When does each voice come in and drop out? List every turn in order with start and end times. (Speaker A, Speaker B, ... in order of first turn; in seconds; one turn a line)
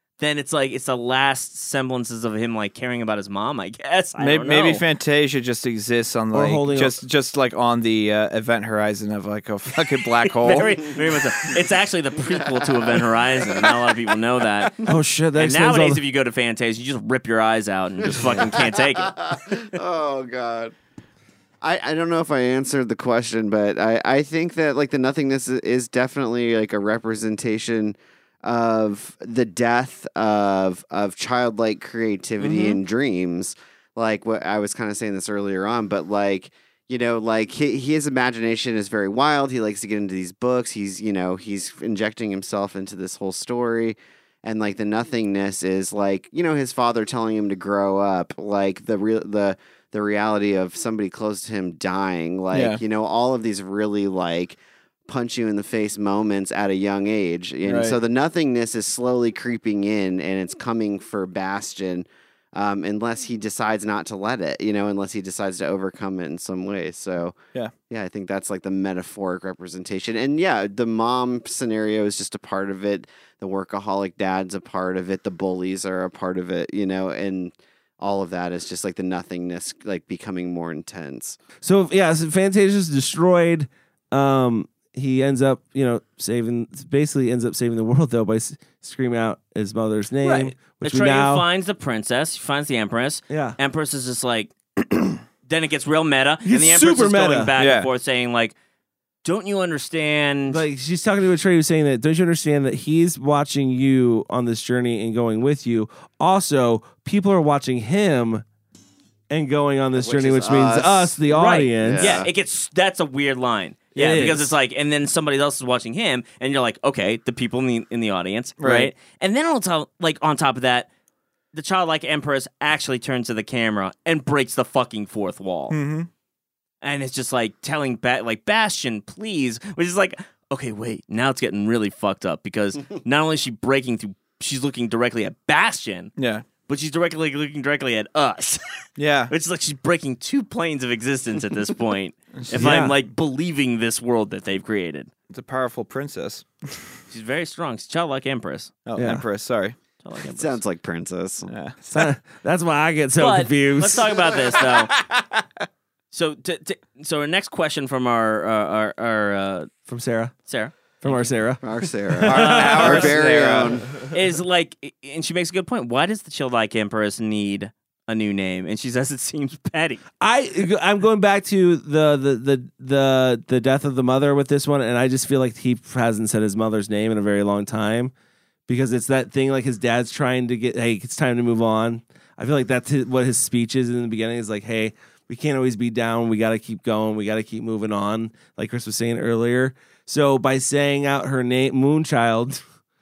Speaker A: 0.2-4.8
Speaker B: 4.2-10.9
Speaker C: 6.3-7.0
Speaker A: 10.3-14.8
Speaker D: 12.3-13.2
Speaker C: 14.8-16.0
Speaker A: 15.4-19.6
Speaker D: 18.1-20.7
Speaker D: 21.6-67.4
Speaker A: 32.4-32.8
Speaker B: 52.5-52.8
Speaker B: 57.6-58.0
Speaker D: 67.9-81.4
Speaker C: 81.6-91.4
Speaker A: 90.2-98.5
Speaker C: 93.3-93.6
Speaker C: 96.4-97.5
Speaker B: 97.6-97.9
Speaker A: 99.2-100.6
Speaker C: 100.5-108.4
Speaker C: 109.3-112.2
Speaker D: 110.0-111.2
Speaker A: 111.3-120.9
Speaker D: 111.8-112.3
Speaker C: 113.9-114.5
Speaker B: 118.6-118.9
Speaker A: 121.5-125.8
Speaker B: 125.7-126.1
Speaker A: 126.8-136.1
Speaker B: 136.2-136.5
Speaker A: 136.7-138.6
Speaker B: 139.0-139.3
Speaker A: 139.3-145.1
Speaker B: 142.4-142.8
Speaker C: 142.5-142.9
Speaker B: 145.3-146.8
Speaker A: 147.1-148.7
Speaker B: 148.8-149.8
Speaker C: 148.9-149.2
Speaker A: 150.0-150.6
Speaker D: 150.2-151.5
Speaker B: 151.5-151.8
Speaker C: 151.9-154.0
Speaker A: 153.2-154.9
Speaker B: 154.7-155.4
Speaker A: 156.1-159.7
Speaker C: 159.9-160.3
Speaker A: 160.5-161.3
Speaker C: 161.0-161.6
Speaker D: 161.6-164.0
Speaker B: 162.2-163.8
Speaker A: 162.3-163.2
Speaker A: 164.1-170.0
Speaker C: 170.2-178.1
Speaker C: 178.7-192.6